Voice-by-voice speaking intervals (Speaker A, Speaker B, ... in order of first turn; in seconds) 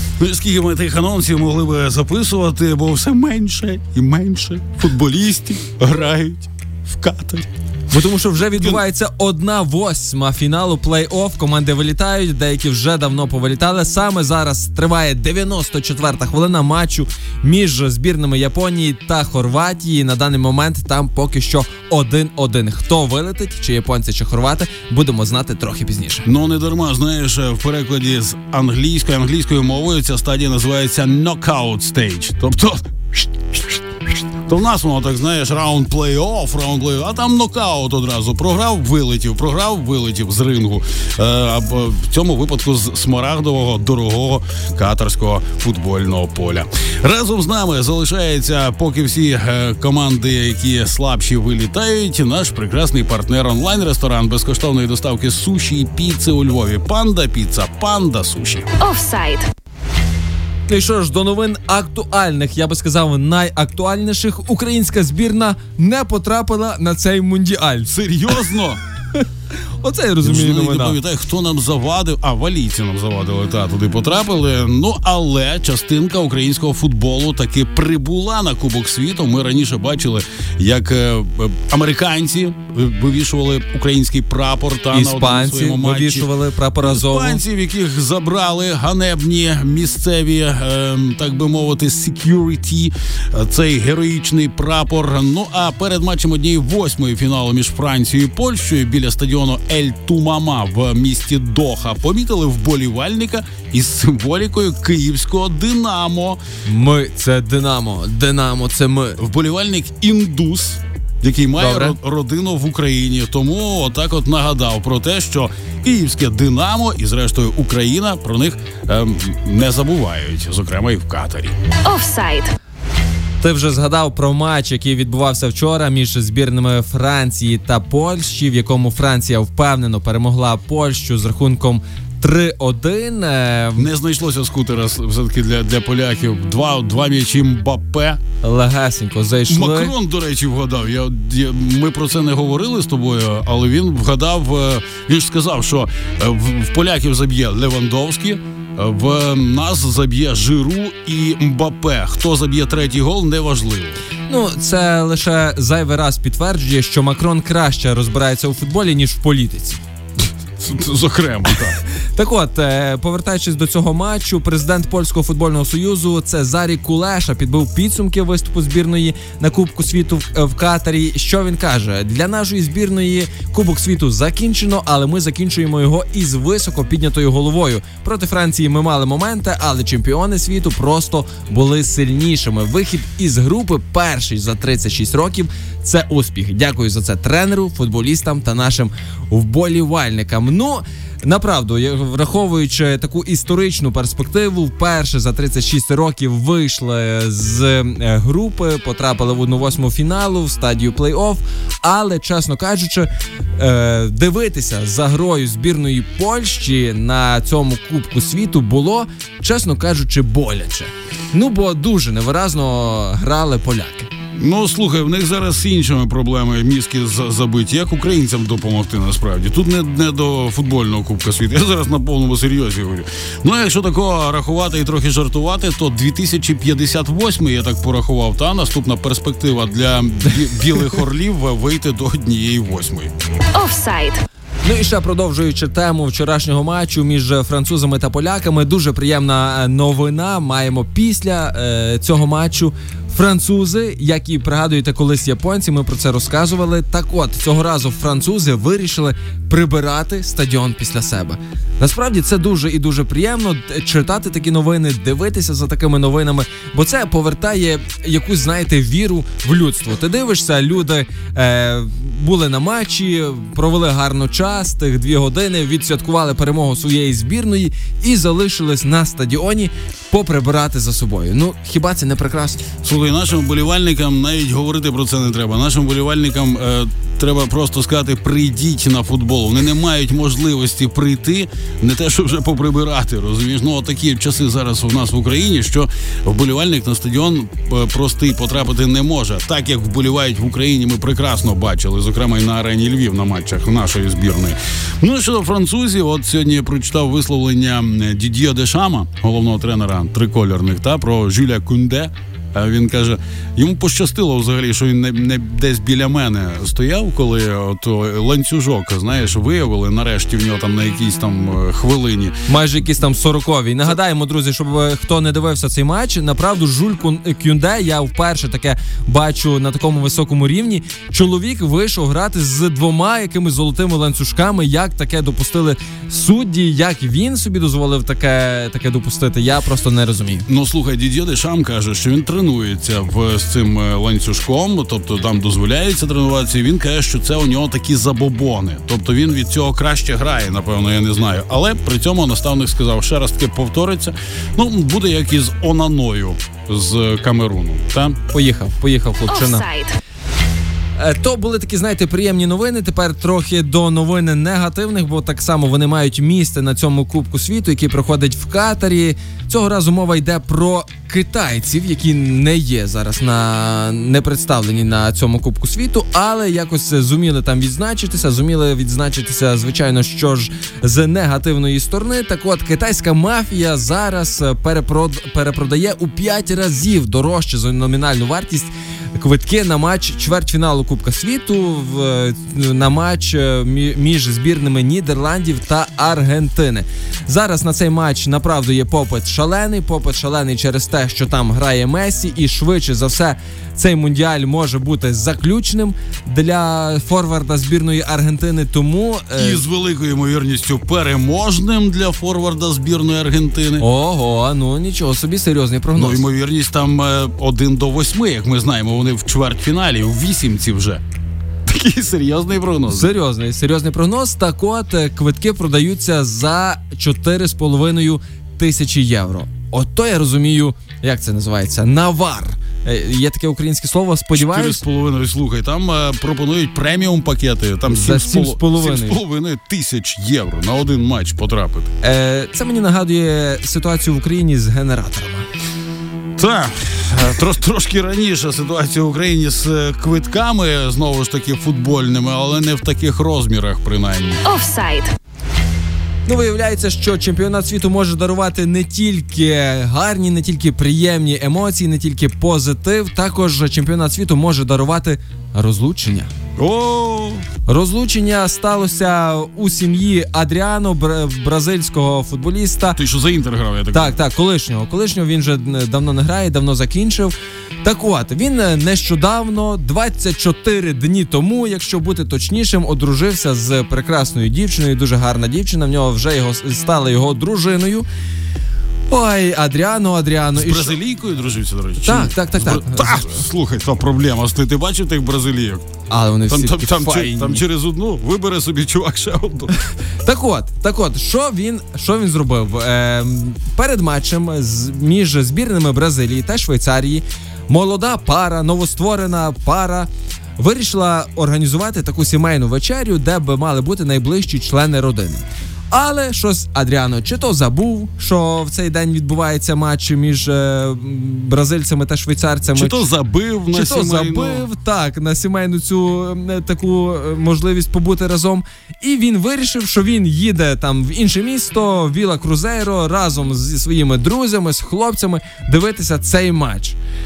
Speaker A: 0.2-7.5, 8.4-8.8, 26.2-33.8, 34.5-58.7, 67.9-68.8, 70.2-106.4, 109.2-121.5, 133.8-138.2, 139.5-154.0, 160.6-161.8, 214.3-233.1, 272.8-312.4, 330.5-348.2, 399.4-403.8, 405.9-411.0, 411.7-413.1, 424.3-431.9, 436.4-444.4, 456.6-457.4, 462.9-464.1, 480.5-485.8, 486.5-489.7, 512.8-514.7
Speaker B: 7.9-26.3, 60.7-68.4, 69.8-71.0, 84.9-87.4, 106.7-109.2, 111.6-112.0, 123.4-133.9, 138.4-139.9, 154.3-159.8, 162.1-214.1, 234.6-272.6, 312.5-330.5, 348.3-349.6, 351.0-399.6, 403.8-406.2, 412.9-424.8, 427.9-429.2, 432.0-435.5, 446.2-456.3, 457.6-463.0, 463.9-467.3, 467.8-478.1, 479.1-481.0, 482.0-483.4, 486.1-487.6, 490.2-513.1, 513.7-527.0
Speaker C: 58.8-59.5, 121.8-122.5, 233.5-234.2, 349.3-350.0, 444.4-445.1